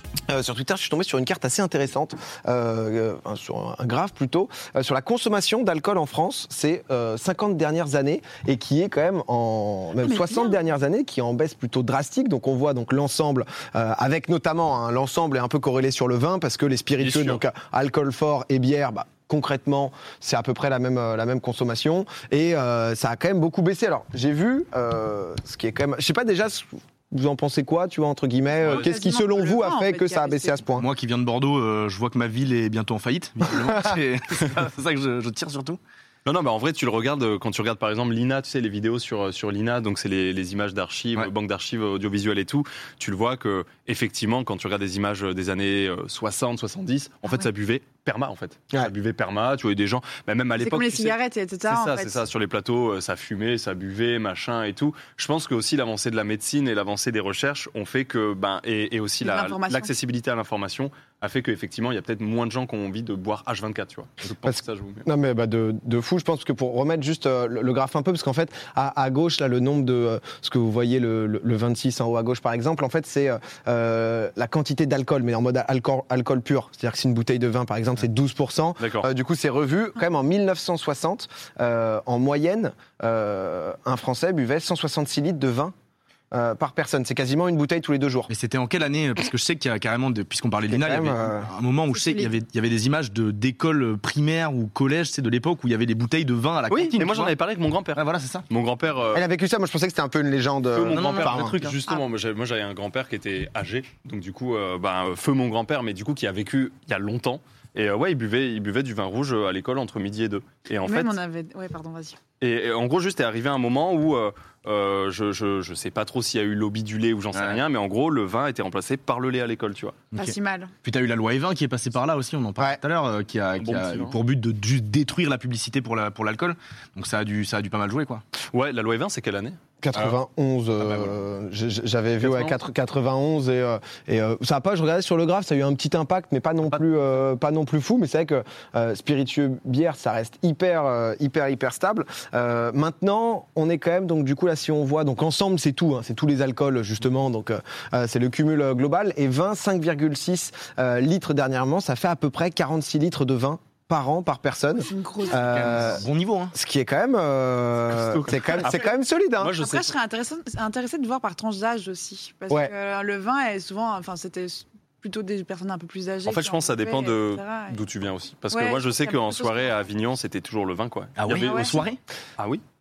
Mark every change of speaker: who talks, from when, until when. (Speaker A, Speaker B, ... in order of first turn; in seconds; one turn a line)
Speaker A: 0.3-30.9
Speaker B: 10.0-10.5
Speaker C: 17.0-17.4
Speaker B: 28.6-30.6
Speaker D: 30.8-35.8
Speaker C: 36.2-65.0
Speaker B: 50.6-52.2
Speaker B: 59.2-59.9
Speaker A: 64.4-85.7
Speaker C: 78.8-79.1
Speaker A: 86.3-88.3
Speaker D: 88.3-97.3
Speaker A: 90.7-91.5
Speaker B: 91.9-92.3
Speaker C: 96.7-99.2
Speaker D: 97.9-98.4
Speaker A: 99.1-101.6
Speaker C: 100.7-111.1
Speaker D: 100.9-101.8
Speaker B: 110.8-112.2
Speaker C: 112.4-120.0
Speaker D: 117.3-117.6
Speaker D: 120.1-128.2
Speaker B: 120.1-120.7
Speaker C: 123.6-124.2
Speaker C: 128.5-129.6
Speaker A: 129.8-159.6
Speaker D: 130.8-131.2
Speaker C: 132.2-132.6
Speaker B: 154.8-155.7
Speaker D: 155.3-156.5
Speaker C: 157.9-158.8
Speaker C: 159.4-159.9
Speaker B: 159.6-167.8
Speaker C: 166.2-171.8
Speaker B: 168.5-169.8
Speaker D: 171.2-172.0
Speaker B: 171.3-171.8
Speaker C: 172.4-172.6